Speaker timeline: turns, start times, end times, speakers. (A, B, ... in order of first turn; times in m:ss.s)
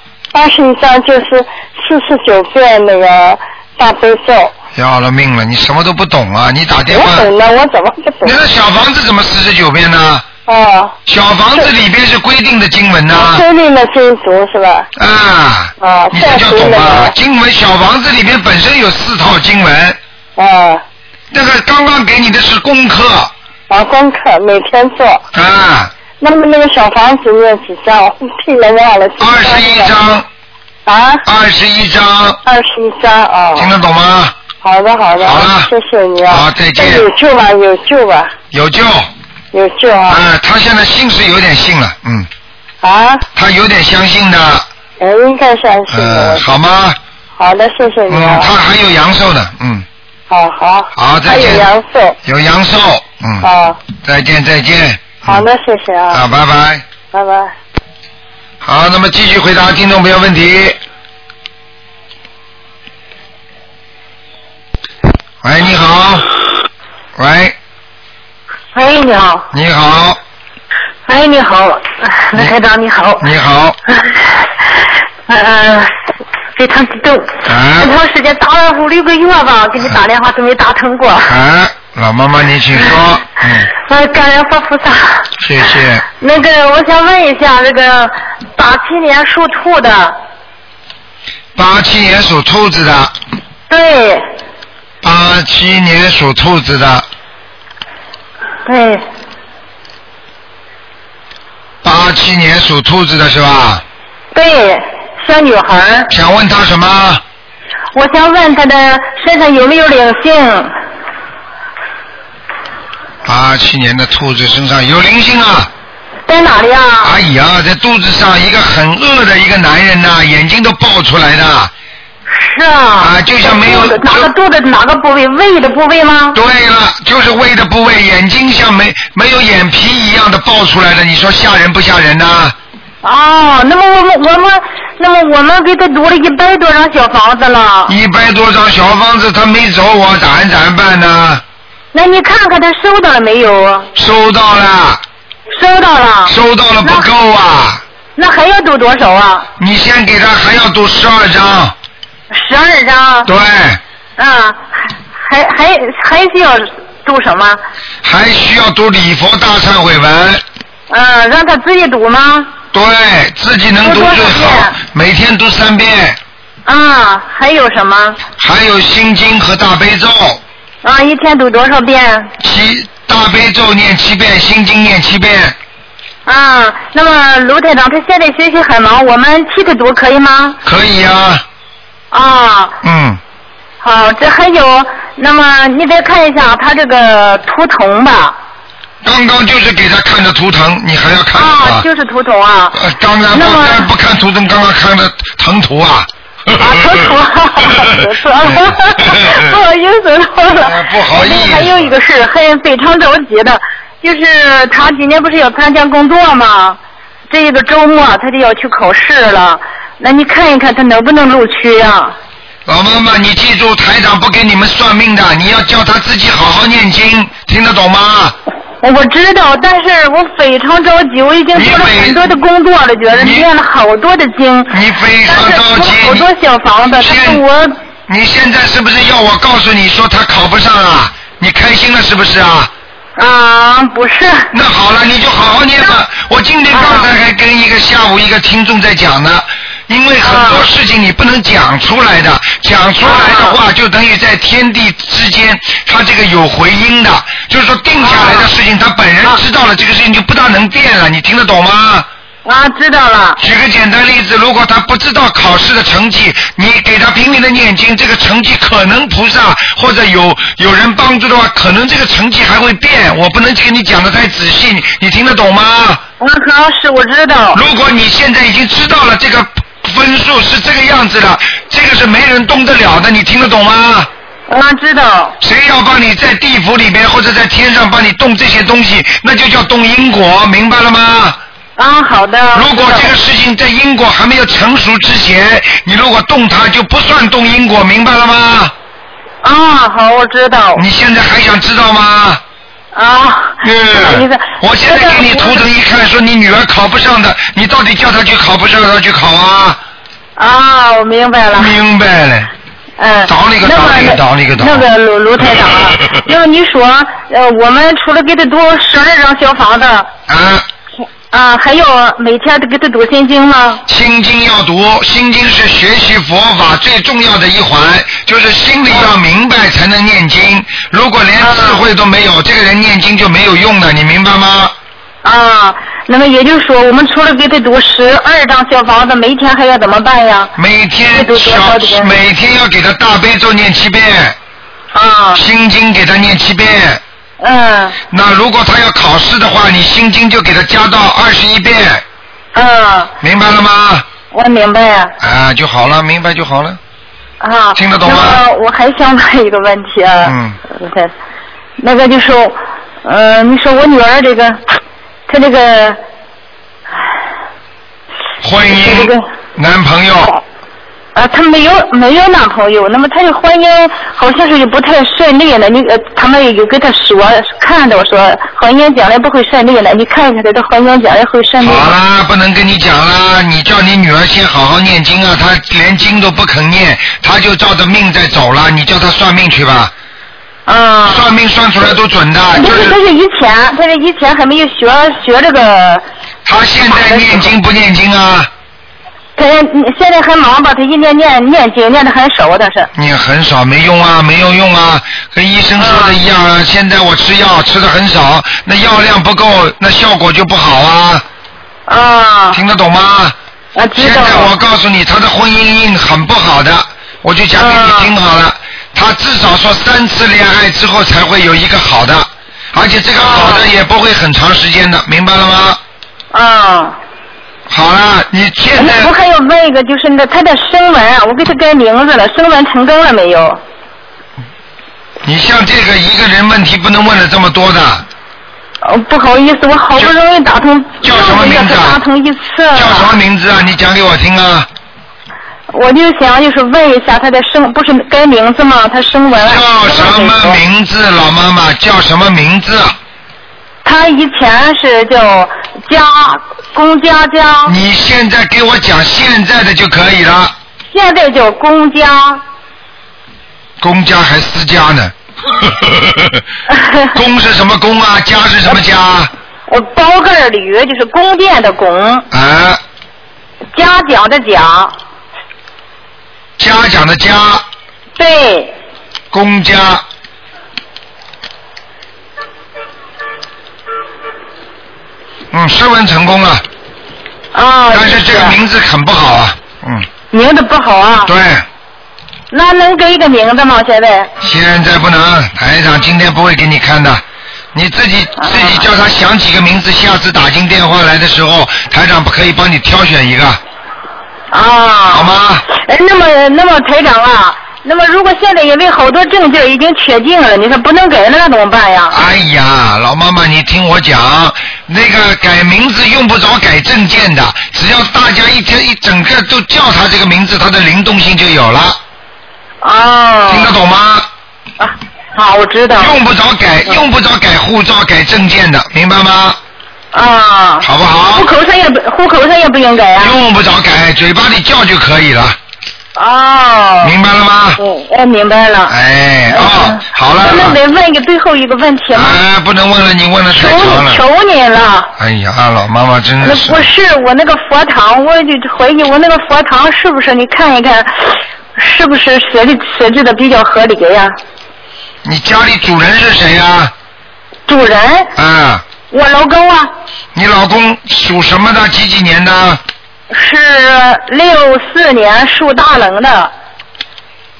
0:00.3-0:04.5 A
0:04.7-0:07.3 B
0:06.9-0:08.4 A
0:08.2-0:10.2 B
0:10.5-0:11.0 A
0:11.1-0:13.4 B
0:13.1-0:14.9 A
0:15.0-0:20.0 B
0:15.8-0:17.1 A
0:20.4-0:20.8 A
0:21.3-0:23.3 B
0:23.7-0:25.2 A
0:25.3-0:25.9 B
0:26.2-0:29.9 A
0:29.2-0:30.3 B
0:30.8-0:31.2 A
0:31.2-0:32.4 B
0:32.4-0:33.7 A
0:33.6-0:34.3 B
0:34.6-0:38.3 A
0:35.2-0:35.7 B
0:36.3-0:37.1 B
0:38.5-0:39.1 B
0:39.5-0:40.2 A
0:40.1-0:42.3 B
0:42.8-0:43.2 A
0:43.3-0:44.7 B
0:45.0-0:46.5 A
0:45.9-0:47.0 B
0:47.4-0:48.5 A
0:48.1-0:49.8 B
0:50.3-0:52.2 A
0:50.9-0:51.7 B
0:52.2-0:53.4 B
0:53.4-0:53.8 A
0:54.0-0:55.4 B
0:55.2-0:56.2 A
0:56.1-0:56.8 B
0:57.1-0:57.5 A
0:58.6-1:00.8 B
1:05.4-1:06.3 B
1:07.2-1:07.5 B
1:08.7-1:09.5 C
1:09.5-1:10.2 B
1:11.1-1:13.3 C
1:13.2-1:13.8 B
1:15.3-1:15.9 C
1:16.6-1:21.3 C
1:17.4-1:17.9 B
1:21.3-1:23.7 B
1:23.7-1:25.3 C
1:25.4-1:26.0 B
1:26.2-1:30.2 C
1:31.5-1:33.1 B
1:33.7-1:34.2 C
1:35.0-1:37.0 B
1:38.6-1:39.0 C
1:41.8-1:43.8 B
1:44.3-1:46.1 C
1:46.1-1:47.2 B
1:47.9-1:50.7 C
1:53.2-1:55.7 B
1:56.3-1:57.2 C
1:57.0-2:01.7 B
2:02.3-2:06.4 C
2:03.0-2:04.3 B
2:06.3-2:12.5 B
2:13.0-2:17.9 C
2:17.9-2:21.4 B
2:21.9-2:23.9 C
2:23.9-2:25.0 B
2:25.5-2:27.1 C
2:26.3-2:27.8 B
2:28.2-2:29.5 C
2:29.6-2:31.7 B
2:32.3-2:33.3 C
2:33.2-2:33.8 B
2:34.2-2:37.6 C
2:38.0-2:40.4 B
2:40.9-2:42.5 C
2:42.7-2:46.2 B
2:43.8-2:44.8 C
2:46.6-2:48.2 C
2:48.4-2:50.4 B
2:50.8-2:52.3 C
2:52.4-2:55.6 B
2:56.2-3:00.6 C
3:00.6-3:01.4 B
3:02.1-3:02.8 C
3:02.8-3:03.2 B
3:03.8-3:08.4 C
3:09.0-3:11.8 B
3:11.3-3:12.8 C
3:12.7-3:17.0 B
3:13.3-3:13.9 C
3:16.6-3:26.8 C
3:18.4-3:19.5 B
3:20.6-3:21.9 B
3:27.3-3:32.2 C
3:32.7-3:38.4 B
3:38.8-3:47.8 C
3:41.5-3:42.2 B
3:43.1-3:43.5 B
3:44.7-3:46.3 B
3:47.0-3:47.4 B
3:48.1-3:52.7 B
3:53.2-3:54.5 C
3:54.5-4:12.1 B
3:56.7-3:57.1 C
4:00.2-4:00.7 C
4:03.0-4:03.6 C
4:08.0-4:08.5 C
4:12.4-4:13.4 C
4:13.4-4:26.0 B
4:26.2-4:27.6 C
4:27.5-4:34.1 B
4:34.5-4:35.4 C
4:35.4-4:41.4 B
4:41.8-4:43.1 C
4:42.5-4:48.7 B
4:49.4-4:50.8 C
4:50.8-4:52.4 B
4:52.9-4:55.6 C
4:53.6-4:59.8 B
5:00.4-5:01.8 C
5:01.5-5:02.5 B
5:03.0-5:10.1 C
5:03.2-5:04.8 B
5:10.3-5:10.7 B
5:11.3-5:13.8 C
5:13.9-5:24.7 B
5:18.9-5:19.2 C
5:21.4-5:21.8 C
5:25.2-5:30.5 C
5:30.6-5:34.4 B
5:31.1-5:32.2 C
5:34.9-5:35.4 C
5:35.3-5:37.0 B
5:37.4-5:38.0 C
5:38.1-5:42.0 B
5:42.5-5:43.1 C
5:43.2-5:44.0 B
5:44.3-5:45.1 C
5:45.2-5:46.8 B
5:47.4-5:51.1 C
5:47.8-5:48.4 B
5:50.2-5:50.6 B
5:51.8-5:54.6 C
5:55.3-5:56.0 C
5:58.4-6:00.3 B
5:58.7-5:59.2 C
6:01.1-6:11.9 C
6:11.6-6:19.9 B
6:20.6-6:21.3 C
6:21.0-6:23.0 B
6:22.5-6:26.0 C
6:26.4-6:28.5 B
6:26.9-6:27.5 C
6:29.4-6:32.9 C
6:32.9-6:41.2 B
6:35.8-6:36.2 C
6:41.9-6:42.6 C
6:42.5-6:43.4 B
6:43.7-6:44.5 C
6:44.0-6:55.8 B
6:47.6-6:48.1 C
6:53.2-6:53.7 C
6:56.3-6:57.0 C
6:57.7-6:59.1 B
6:58.8-7:03.6 C
7:05.2-7:08.0 B
7:08.8-7:13.1 C
7:11.0-7:12.0 B
7:12.7-7:14.7 B
7:15.7-7:20.6 C
7:19.4-7:22.9 B
7:23.8-7:27.8 C
7:27.6-7:30.5 B
7:30.9-7:32.4 C
7:33.8-7:36.4 B
7:36.7-7:37.1 C
7:37.1-7:39.3 B
7:39.7-7:42.2 C
7:42.3-7:42.8 B
7:43.7-7:44.9 C
7:46.6-7:47.6 B
7:48.2-7:48.7 C
7:49.3-7:50.0 B
7:55.5-7:56.6 B
7:57.5-7:58.6 C
7:57.9-8:00.1 B
8:00.3-8:01.3 C
8:01.2-8:01.6 B
8:02.5-8:04.3 C
8:04.4-8:07.2 B
8:07.7-8:13.6 B
8:08.4-8:08.8 C
8:14.5-8:22.2 C
8:15.1-8:15.6 B
8:22.1-8:32.0 B
8:32.8-8:33.7 C
8:33.5-8:34.3 B
8:34.8-8:36.2 C
8:36.0-8:39.6 B
8:40.1-8:43.4 C
8:40.8-8:41.5 B
8:43.2-8:45.6 B
8:46.1-8:47.2 C
8:47.0-8:47.8 B
8:47.8-8:49.0 C
8:48.9-8:50.8 B
8:49.5-8:52.4 C
8:52.1-8:54.2 B
8:53.5-8:55.1 C
8:55.2-8:56.9 B
8:56.4-9:04.4 C
9:05.2-9:06.9 B
9:07.7-9:08.3 C
9:08.4-9:08.8 B
9:09.1-9:09.9 C
9:10.3-9:12.8 B
9:13.3-9:16.5 C